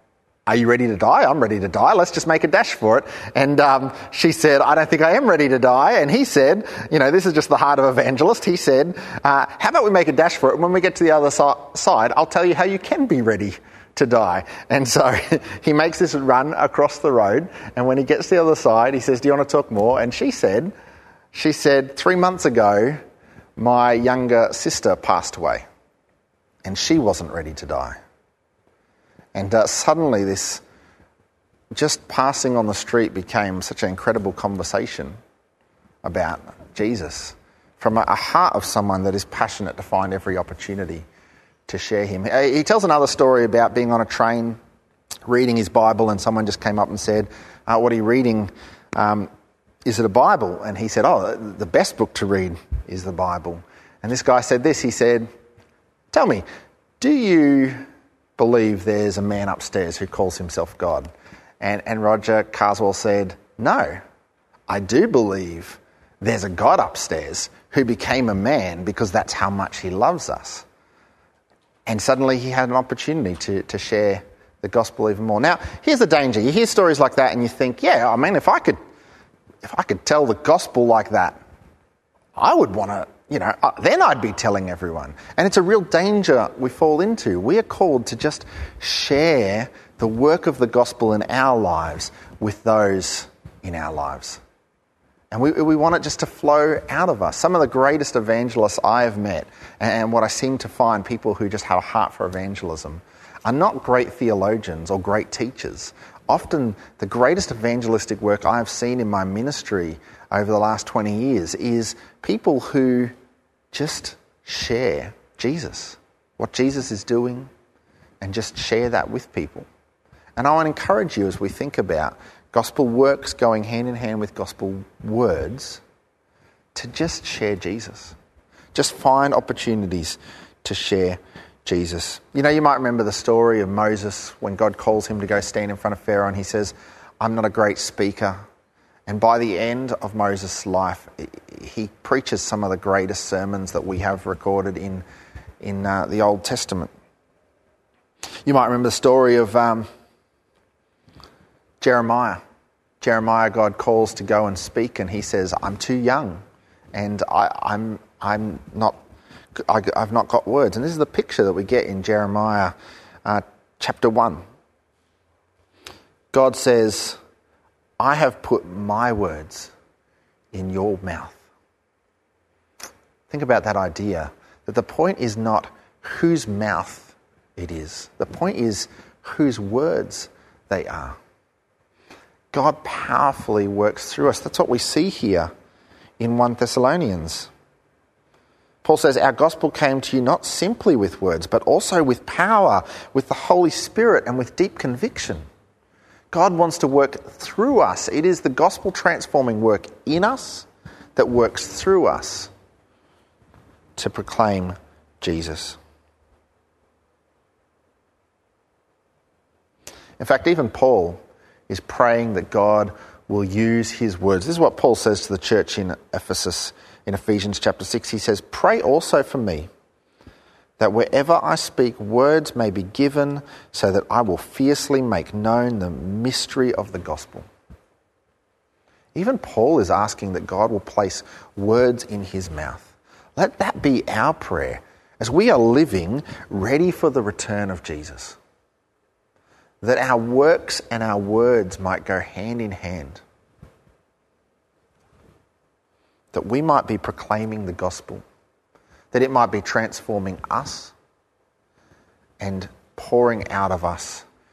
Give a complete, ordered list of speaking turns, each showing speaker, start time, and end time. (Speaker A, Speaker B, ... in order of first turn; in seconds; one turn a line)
Speaker A: 0.5-20.7
Speaker A: 21.3-23.0
Speaker A: 23.6-25.6
Speaker A: 26.6-27.9
Speaker A: 29.3-30.6
Speaker A: 31.7-35.2
Speaker A: 36.0-41.0
Speaker A: 41.7-44.6
Speaker A: 45.3-49.3
Speaker A: 49.8-55.3
Speaker A: 56.1-56.4
Speaker A: 57.0-57.8
Speaker A: 58.4-61.1
Speaker A: 61.6-64.0
Speaker A: 64.7-70.6
Speaker A: 71.9-78.8
Speaker A: 79.6-81.4
Speaker A: 82.3-94.4
Speaker A: 95.3-113.1
Speaker A: 113.7-117.5
Speaker A: 118.2-119.7
Speaker A: 120.3-125.8
Speaker A: 126.7-128.2
Speaker A: 128.7-138.4
Speaker A: 139.1-145.0
Speaker A: 145.6-146.9
Speaker A: 148.4-149.8
Speaker A: 151.8-152.4
Speaker A: 153.0-156.4
Speaker A: 156.9-159.0
Speaker A: 159.5-162.7
Speaker A: 163.2-164.4
Speaker A: 166.3-167.2
Speaker A: 168.0-169.7
Speaker A: 170.5-171.4
Speaker A: 173.3-181.2
Speaker A: 182.5-185.5
Speaker A: 186.2-187.5
Speaker A: 188.8-195.4
Speaker A: 196.3-202.5
Speaker A: 203.9-205.8
Speaker A: 210.2-219.7
Speaker A: 220.8-227.5
Speaker A: 229.1-238.4
Speaker A: 239.8-243.2
Speaker A: 246.3-248.2
Speaker A: 249.1-250.9
Speaker A: 252.4-254.2